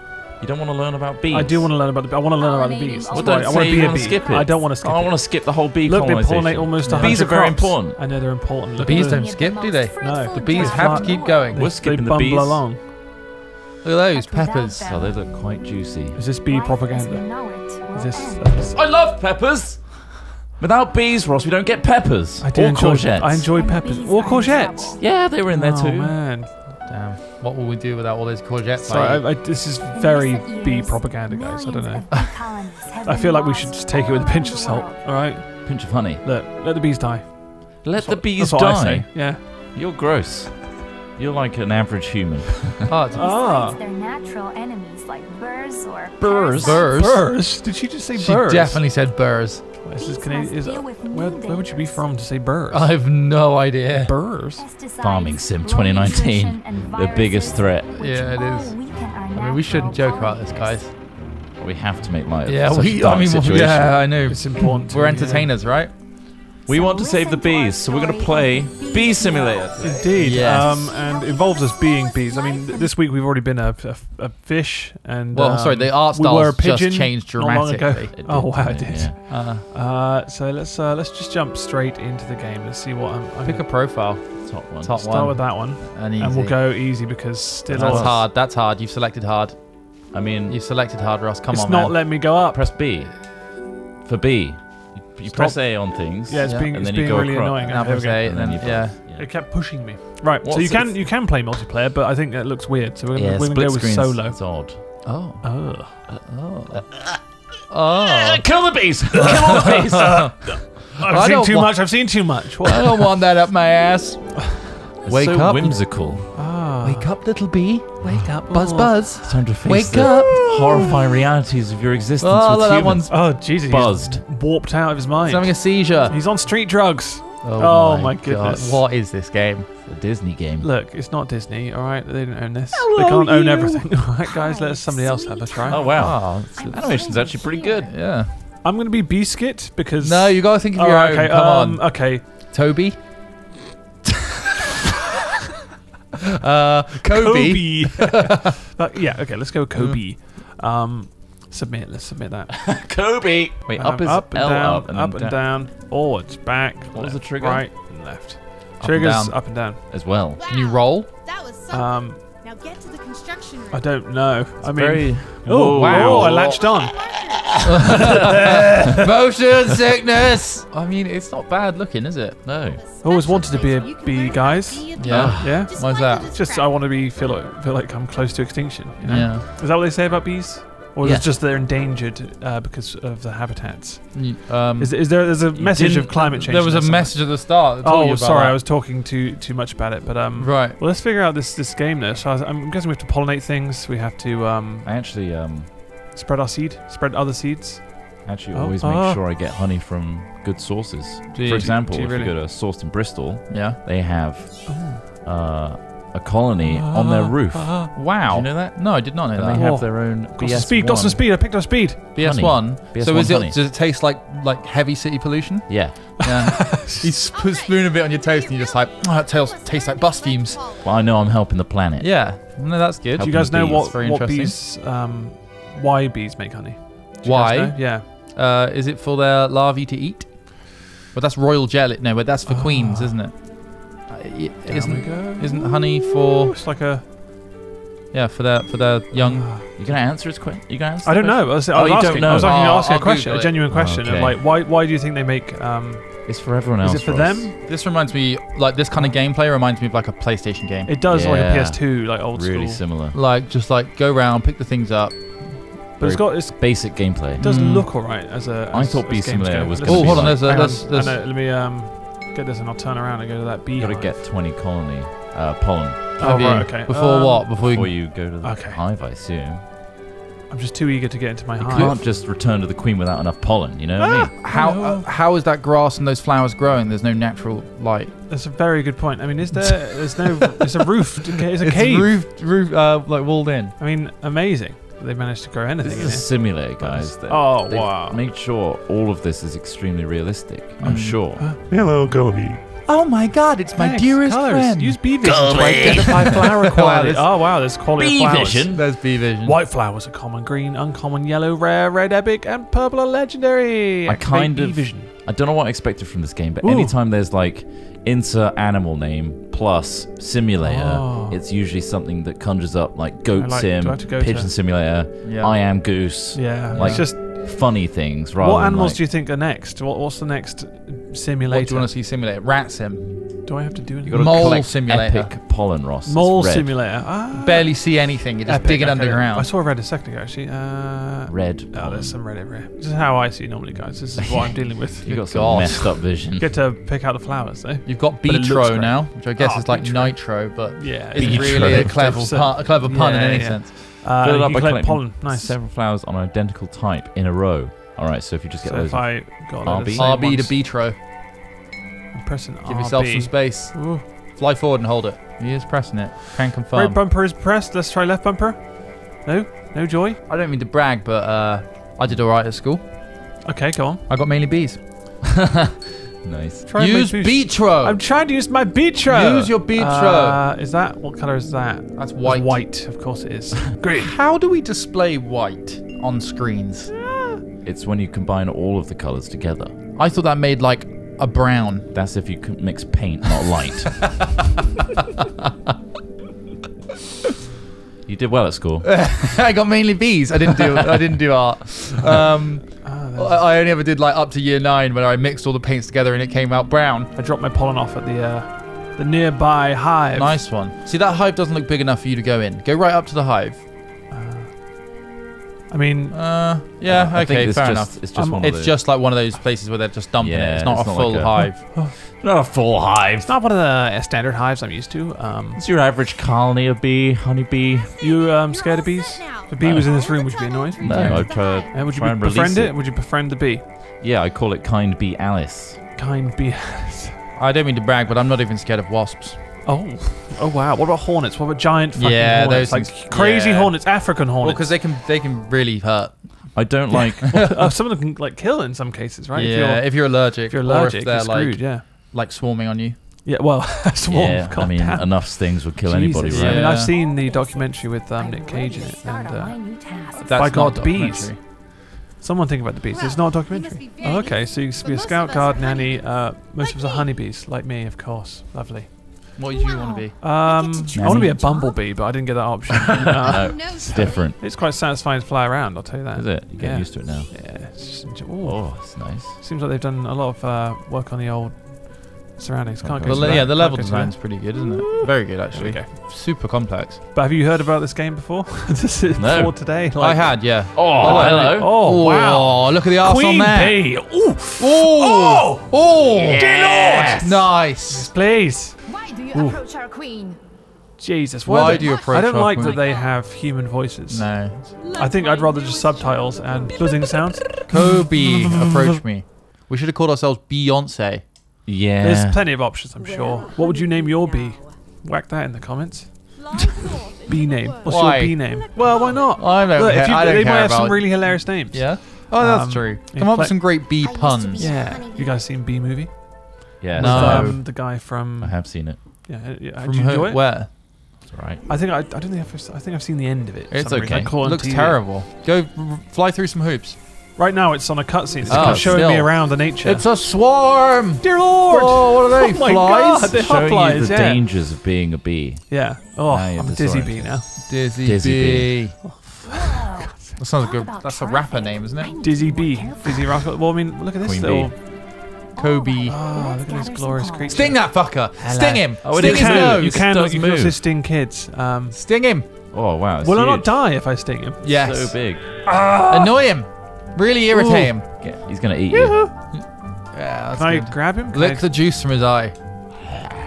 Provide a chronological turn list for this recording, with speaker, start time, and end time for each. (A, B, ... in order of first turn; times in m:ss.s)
0:00.4-0:01.7 A
0:01.3-0:12.8 B
0:02.4-0:04.6 C
0:03.1-0:08.2 A
0:06.8-0:07.2 D
0:08.8-0:11.6 D
0:08.8-0:11.4 C
0:11.5-0:12.7 A
0:13.8-0:14.9 D
0:14.1-0:15.8 C
0:14.8-0:16.2 A
0:16.1-0:18.8 B
0:16.4-0:18.6 C
0:18.7-0:23.5 A
0:22.4-0:26.6 B
0:23.5-0:25.0 C
0:25.0-0:26.2 A
0:26.8-0:29.2 D
0:28.8-0:39.4 B
0:29.9-0:35.2 C
0:35.6-0:36.2 A
0:37.8-0:42.9 A
0:42.9-0:43.3 D
0:43.1-0:46.9 C
0:43.1-0:43.8 B
0:46.2-0:46.8 A
0:46.5-0:47.5 D
0:46.9-0:48.8 B
0:48.2-0:49.6 D
0:49.8-0:53.1 B
0:50.0-0:52.2 C
0:52.7-0:54.2 D
0:54.0-0:54.6 B
0:54.6-1:00.9 C
0:55.0-0:57.9 A
0:58.0-1:00.9 D
1:01.4-1:04.8 A
1:02.4-1:06.0 D
1:04.3-1:05.5 B
1:06.6-1:10.4 A
1:06.7-1:10.0 C
1:09.8-1:23.7 B
1:10.2-1:10.9 D
1:10.6-1:12.9 C
1:15.3-1:18.1 D
1:18.1-1:19.2 A
1:19.3-1:19.6 D
1:23.4-1:27.0 D
1:24.4-1:25.0 A
1:25.0-1:28.2 B
1:27.7-1:28.3 A
1:27.7-1:32.0 D
1:30.1-1:30.6 A
1:31.5-1:32.7 B
1:32.5-1:33.3 A
1:34.0-1:39.4 A
1:35.3-1:46.0 B
1:36.4-1:36.9 D
1:37.7-1:39.0 D
1:40.4-1:40.9 A
1:43.1-1:44.8 A
1:45.0-1:47.0 D
1:46.7-1:47.2 A
1:47.7-1:48.5 D
1:47.9-1:50.5 A
1:49.2-1:50.4 D
1:50.4-1:53.1 B
1:51.0-1:55.9 D
1:55.0-1:56.5 A
1:56.3-1:57.1 B
1:56.8-2:01.1 D
1:58.0-1:59.1 B
1:59.2-2:04.3 A
2:02.2-2:03.3 D
2:03.1-2:08.8 B
2:05.2-2:06.2 D
2:07.4-2:09.7 D
2:09.8-2:10.7 A
2:10.6-2:16.1 B
2:12.9-2:13.8 A
2:14.3-2:17.9 C
2:15.7-2:17.9 A
2:16.0-2:17.2 D
2:17.9-2:18.3 D
2:18.6-2:22.2 B
2:20.0-2:23.4 D
2:26.4-2:28.2 D
2:27.1-2:32.8 B
2:29.7-2:30.0 D
2:32.5-2:35.5 A
2:33.7-2:39.8 B
2:36.9-2:37.7 A
2:38.8-2:39.9 D
2:39.9-2:40.4 A
2:40.3-2:44.5 E
2:40.5-2:41.1 D
2:41.7-2:42.2 B
2:43.7-2:47.1 B
2:44.6-2:46.6 A
2:45.7-2:46.6 D
2:46.4-2:48.2 E
2:47.6-2:52.6 D
2:47.8-2:48.9 B
2:52.4-2:52.8 A
2:52.6-2:56.9 E
2:53.0-3:14.9 B
2:55.0-2:56.4 D
2:55.0-2:55.6 A
2:59.0-2:59.5 D
3:01.0-3:01.3 A
3:04.1-3:08.6 D
3:10.4-3:10.8 D
3:14.8-3:15.7 A
3:16.1-3:19.2 B
3:18.2-3:31.4 A
3:21.3-3:21.8 D
3:21.6-3:22.4 B
3:23.5-3:23.8 D
3:24.7-3:25.0 B
3:26.6-3:27.9 B
3:27.9-3:29.8 D
3:29.5-3:32.0 B
3:32.2-3:40.6 D
3:32.2-3:33.6 A
3:35.7-3:36.1 A
3:36.3-3:37.0 B
3:37.1-3:41.4 E
3:40.8-3:42.2 A
3:42.0-3:44.6 D
3:43.2-3:43.9 A
3:43.2-3:48.1 B
3:47.2-3:56.6 D
3:52.5-3:53.2 B
3:54.6-3:57.0 B
3:58.1-3:59.6 D
3:59.2-4:00.0 B
3:59.8-4:02.6 A
4:01.0-4:07.6 B
4:02.1-4:03.6 D
4:03.7-4:04.4 A
4:06.2-4:07.5 A
4:07.6-4:10.9 D
4:08.9-4:09.2 B
4:10.9-4:12.9 B
4:11.1-4:13.2 A
4:13.1-4:15.8 D
4:16.0-4:24.2 B
4:16.0-4:17.4 A
4:17.4-4:17.9 D
4:18.7-4:20.7 A
4:19.8-4:21.2 D
4:23.8-4:26.2 A
4:26.2-4:28.8 B
4:26.2-4:28.2 D
4:27.6-4:29.6 A
4:30.5-4:32.0 B
4:31.6-4:34.3 A
4:34.0-4:35.1 B
4:34.4-4:38.2 D
4:38.3-4:42.1 B
4:39.5-4:40.5 D
4:41.6-4:43.8 D
4:43.8-4:48.2 B
4:45.8-4:52.6 A
4:50.8-4:51.4 D
4:51.4-4:52.6 B
4:52.8-4:57.3 D
4:53.8-5:05.1 B
4:55.2-4:56.3 A
4:58.0-4:59.0 A
4:58.7-4:59.6 D
5:04.1-5:19.0 A
5:06.6-5:07.0 B
5:10.6-5:11.4 B
5:13.4-5:14.5 B
5:15.2-5:15.6 D
5:16.3-5:21.9 B
5:16.7-5:17.1 D
5:21.5-5:25.3 D
5:23.4-5:24.7 B
5:24.0-5:27.0 A
5:26.0-5:45.6 B
5:27.4-5:29.5 D
5:31.3-5:32.2 A
5:34.2-5:36.6 A
5:35.1-5:35.9 D
5:37.8-5:43.8 D
5:41.2-5:42.3 A
5:44.0-5:50.1 A
5:48.6-5:50.6 B
5:50.0-5:51.0 D
5:52.1-5:54.0 B
5:52.6-5:57.0 D
5:56.7-6:00.2 B
6:00.3-6:02.9 D
6:03.4-6:04.1 B
6:04.1-6:04.8 D
6:05.3-6:06.7 A
6:06.7-6:14.1 B
6:06.8-6:08.2 D
6:09.1-6:10.4 D
6:12.0-6:12.8 D
6:14.0-6:17.0 D
6:17.1-6:17.4 B
6:17.6-6:19.8 A
6:20.0-6:21.9 D
6:21.9-6:24.2 A
6:28.1-6:28.9 A
6:28.8-6:37.1 D
6:32.8-6:33.4 B
6:37.2-6:40.4 B
6:40.1-6:43.7 D
6:44.1-6:44.5 B
6:45.7-6:46.2 B
6:46.1-6:51.7 D
6:46.9-6:48.8 A
6:48.2-6:48.5 B
6:50.2-6:53.3 A
6:53.2-6:55.6 B
6:55.6-6:57.9 A
6:58.0-7:01.8 E
6:58.0-7:03.7 B
6:59.6-6:59.9 A
7:00.8-7:02.8 A
7:04.0-7:05.8 A
7:06.0-7:07.2 B
7:07.4-7:09.4 D
7:09.6-7:14.7 B
7:12.0-7:16.8 D
7:16.5-7:17.6 A
7:16.9-7:21.8 B
7:19.3-7:23.0 D
7:23.2-7:39.3 B
7:24.1-7:26.8 A
7:26.3-7:26.9 D
7:26.9-7:30.7 C
7:30.2-7:31.4 D
7:32.9-7:37.2 E
7:39.4-7:40.2 D
7:39.5-7:41.8 C
7:40.2-7:55.9 B
7:40.4-7:41.8 E
7:41.0-7:41.4 A
7:43.0-7:44.4 A
7:43.3-7:44.4 E
7:46.1-7:47.3 A
7:48.4-7:49.4 A
7:52.8-7:53.5 A
7:53.0-7:57.0 D
7:57.1-8:09.6 B
7:59.2-7:59.6 A
8:00.0-8:04.0 D
8:00.7-8:01.7 A
8:04.6-8:08.1 D
8:06.3-8:07.3 A
8:08.9-8:10.4 E
8:08.9-8:10.4 C
8:11.0-8:19.0 B
8:11.5-8:12.8 D
8:11.6-8:13.2 E
8:14.1-8:14.8 D
8:14.8-8:17.4 E
8:17.7-8:21.3 D
8:21.6-8:22.5 A
8:22.0-8:26.4 B
8:23.0-8:24.3 C
8:23.1-8:24.8 E
8:26.4-8:29.7 E
8:27.3-8:33.8 B
8:27.8-8:28.6 D
8:29.3-8:34.7 D
8:34.0-8:35.4 C
8:34.6-8:41.0 B
8:36.8-8:39.0 A
8:37.0-8:37.6 D
8:39.8-8:40.7 D
8:41.3-8:41.6 A
8:41.7-8:45.0 B
8:43.7-8:47.0 D
8:43.8-8:44.4 A
8:47.4-8:50.1 B
8:48.4-8:49.0 A
8:48.4-8:53.4 D
8:51.2-8:54.7 B
8:53.3-8:59.0 A
8:55.7-8:57.5 B
8:57.6-8:59.0 D
8:59.0-9:00.4 B
8:59.5-9:03.5 C
9:00.4-9:02.1 D
9:02.2-9:05.2 B
9:04.2-9:04.7 A
9:05.5-9:07.8 C
9:05.6-9:06.2 D
9:06.0-9:12.0 B
9:07.5-9:10.0 D
9:09.0-9:10.8 A
9:11.9-9:12.5 D
9:12.7-9:13.8 A
9:13.2-9:15.0 B
9:14.6-9:18.1 D
9:14.6-9:15.5 A
9:15.6-9:16.4 B
9:17.5-9:18.0 B
9:18.2-9:19.2 A
9:18.9-9:19.3 B
9:19.5-9:22.6 D
9:20.5-9:21.7 B